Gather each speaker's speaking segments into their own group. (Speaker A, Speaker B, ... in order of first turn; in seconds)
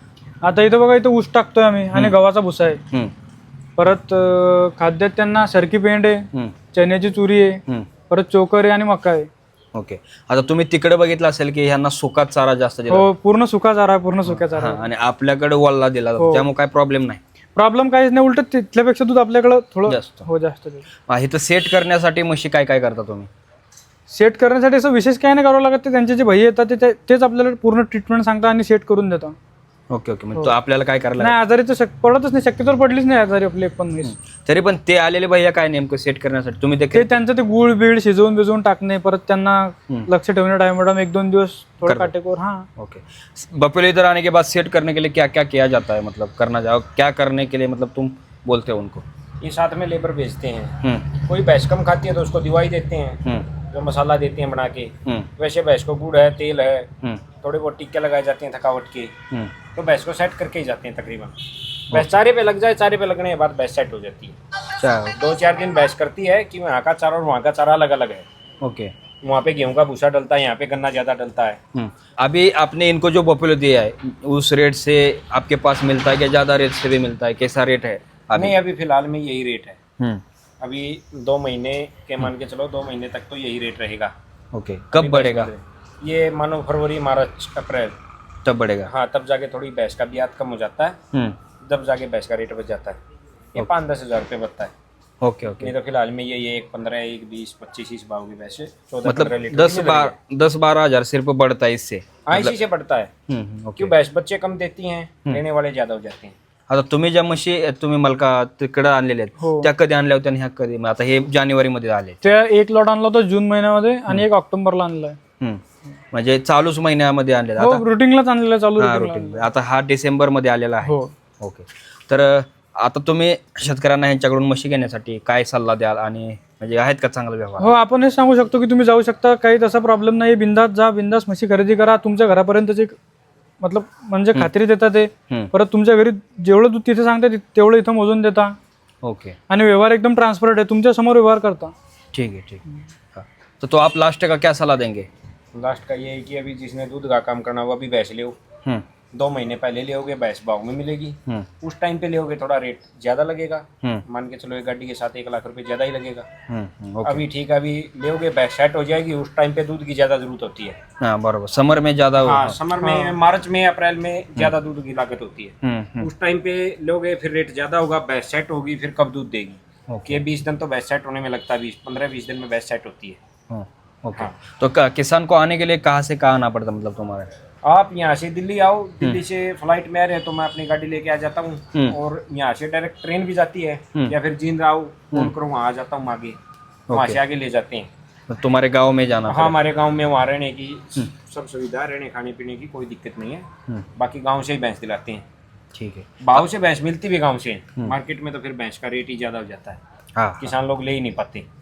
Speaker A: 0.4-2.8, 3.8-9.3, 12.9-14.8, 16.2-16.5, 17.6-20.9, 24.1-29.4, 31.2-34.1, 36.9-42.7, 109.4-109.7, 112.2-115.2, 117.6-119.5, 120.8-121.1, 127.6-133.0, 133.6-138.6, 139.5-141.7, 162.8-163.1
Speaker B: 9.8-13.1, 14.2-17.2, 19.9-20.2, 21.1-23.3, 29.9-31.4, 34.1-37.2, 41.9-42.1, 42.8-49.0, 50.8-51.2, 53.2-53.5, 64.8-65.2, 68.6-68.9, 71.7-78.6, 84.5-85.5, 88.4-88.9, 91.1-91.4, 95.2-95.7, 99.0-102.5, 103.3-103.9, 106.7-112.2, 115.4-117.8, 118.8-127.8, 139.0-139.4, 142.1-142.6, 143.1-145.1, 156.5-157.2, 161.0-162.6, 165.6-166.1, 169.9-170.2, 173.5-177.3, 186.9-187.2, 188.3-189.6, 195.8-196.5, 200.2-200.5
Speaker C: 49.4-56.9, 57.4-59.1, 59.8-61.4, 61.9-64.4, 65.2-68.2, 69.2-71.6, 78.4-79.8, 80.6-84.1, 85.0-88.0, 88.9-91.0, 91.6-93.0, 93.5-94.7, 95.6-100.1, 102.2-103.1, 103.8-106.3, 145.5-148.4, 149.1-156.3, 157.0-160.8, 162.2-173.2, 177.6-186.4, 186.9-187.9, 189.3-193.5, 194.0-195.2, 196.2-199.8, 200.4-201.4